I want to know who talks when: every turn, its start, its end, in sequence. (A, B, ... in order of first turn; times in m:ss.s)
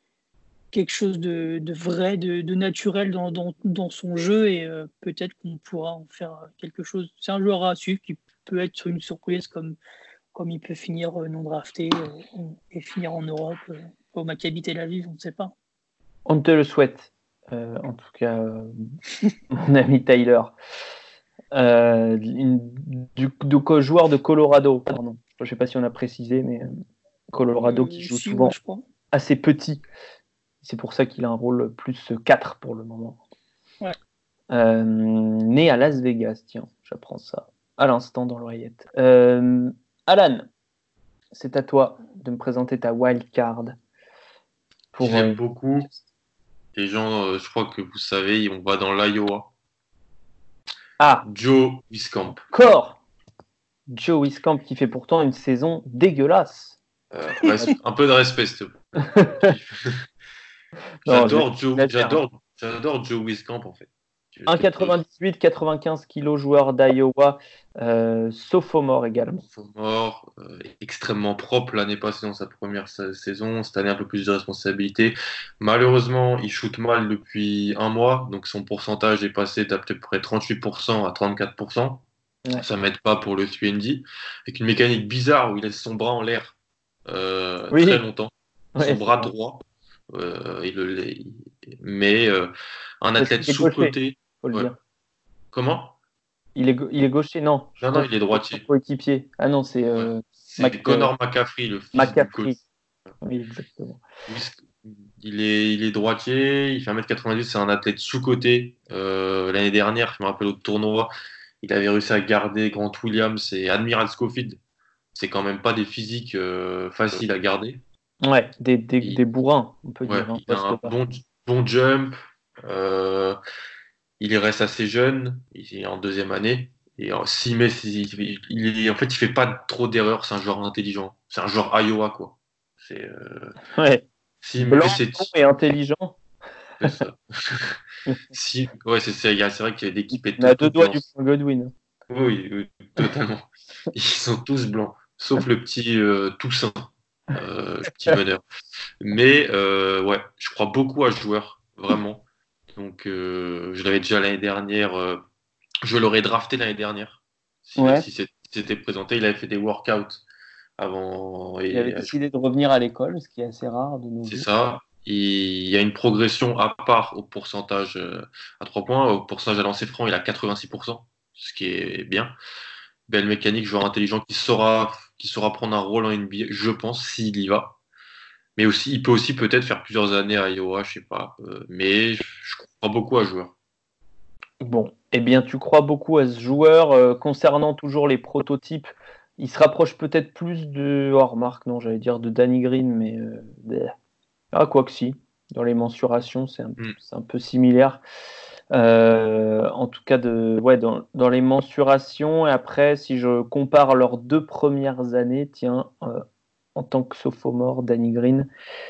0:00.7-0:09.8 A
0:10.3-0:15.5 A
0:16.3-0:18.9 B
0:19.5-0:20.5 B
0:21.5-0:26.7 B
0:27.3-0:28.6 B
0:27.6-0:28.8 A
0:29.1-0:29.8 B
0:30.6-0:33.2 B
0:34.5-0:40.5 B
0:41.3-0:43.8 B
0:44.9-0:45.4 B
0:45.0-0:45.9 C
0:46.7-0:49.5 C
0:51.0-0:51.3 B
0:51.2-0:52.4 C
0:52.5-0:53.0 B
0:53.9-0:56.8 B
0:57.1-1:00.0 C
0:59.0-0:59.5 B
1:01.0-1:02.2 B
1:01.0-1:05.0 C
1:04.5-1:09.4 B
1:09.4-1:22.0 C
1:22.6-1:26.6 C
1:27.1-1:34.7 C
1:27.7-1:28.0 B
1:28.8-1:29.3 B
1:33.2-1:34.8 B
1:35.5-1:36.0 C
1:36.6-1:41.1 B
1:37.8-1:38.6 C
1:40.0-1:42.6 C
1:41.9-1:42.6 B
1:43.2-1:44.0 B
1:44.3-1:51.1 C
1:51.6-1:54.6 C
1:55.1-1:57.8 C
1:58.2-2:01.0 B
2:00.1-2:03.4 C
2:04.2-2:13.6 C
2:13.7-2:14.0 B
2:14.4-2:15.3 C
2:14.6-2:16.2 B
2:16.8-2:17.8 C
2:18.0-2:18.3 B
2:18.3-2:21.0 C
2:20.1-2:21.7 B
2:22.1-2:28.4 C
2:29.0-2:35.2 C
2:35.8-2:40.2 C
2:37.8-2:38.0 B
2:40.8-2:42.2 C
2:41.7-2:44.5 B
2:44.3-2:52.4 C
2:53.1-2:57.8 C
2:58.6-3:03.6 C
3:04.6-3:13.9 B
3:14.5-3:18.0 B
3:18.7-3:26.2 B
3:26.7-3:28.5 B